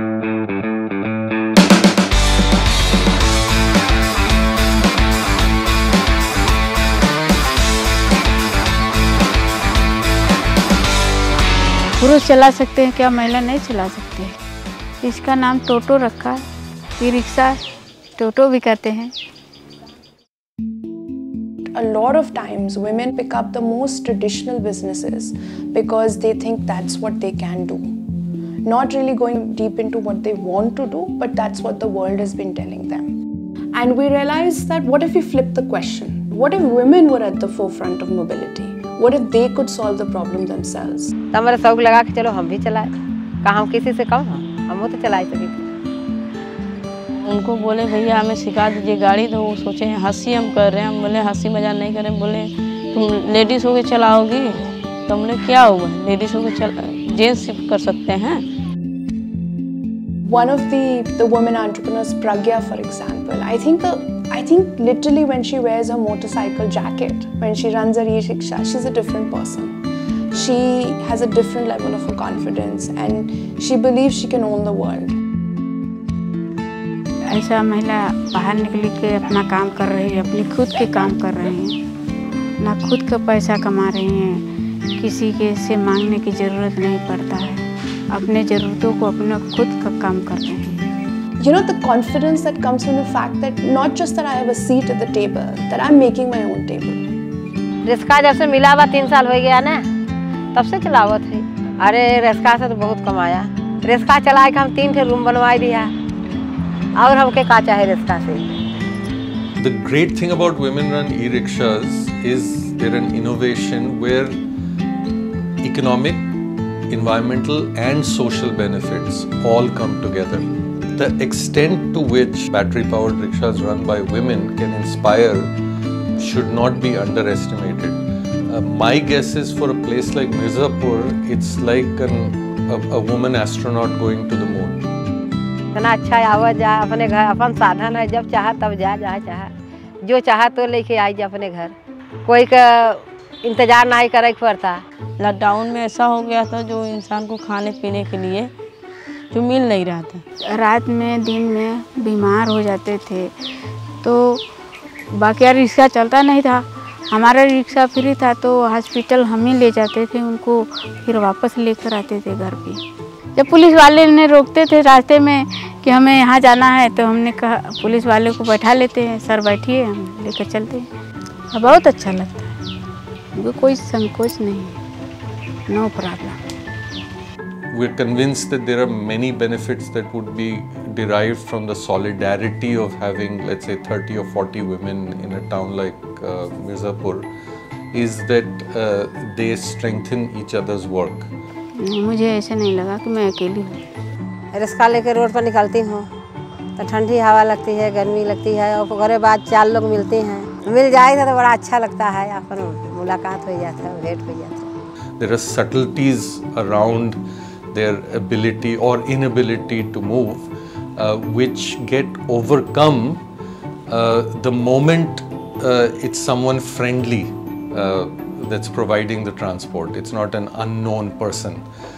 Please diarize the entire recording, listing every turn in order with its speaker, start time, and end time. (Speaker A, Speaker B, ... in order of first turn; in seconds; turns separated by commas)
Speaker A: 12.0-14.4, Speaker A: 15.0-16.4, Speaker A: 17.0-17.6, Speaker A: 18.2-19.1, Speaker B: 21.7-28.1, Speaker B: 28.6-33.1, Speaker B: 33.7-41.1, Speaker C: 41.3-42.9, Speaker C: 43.4-45.6, Speaker D: 47.3-58.4, Speaker B: 60.2-69.8, Speaker B: 70.3-75.2, Speaker A: 77.3-81.8, Speaker A: 82.6-84.5, Speaker A: 85.0-90.8, Speaker B: 91.4-97.0, Speaker C: 97.9-99.8, Speaker C: 100.5-105.9, Speaker C: 107.0-108.5, Speaker E: 109.6-114.4, Speaker E: 115.6-116.4, Speaker E: 116.9-125.5, Speaker E: 126.2-134.8, Speaker C: 135.8-139.5, Speaker C: 140.0-141.7, Speaker C: 142.2-144.8, Speaker D: 145.2-148.5, Speaker D: 149.3-150.2, Speaker A: 150.5-153.3, Speaker A: 154.0-154.4, Speaker A: 155.1-162.8, Speaker A: 163.3-170.9, Speaker A: 171.5-172.6, Speaker A: 173.3-174.8, Speaker A: 175.7-176.4, Speaker E: 177.7-187.3, Speaker E: 187.9-191.3, Speaker A: 191.8-193.8, Speaker C: 194.5-196.1, Speaker C: 196.8-204.7, Speaker E: 205.2-207.2, Speaker E: 207.7-213.2, Speaker E: 213.9-221.6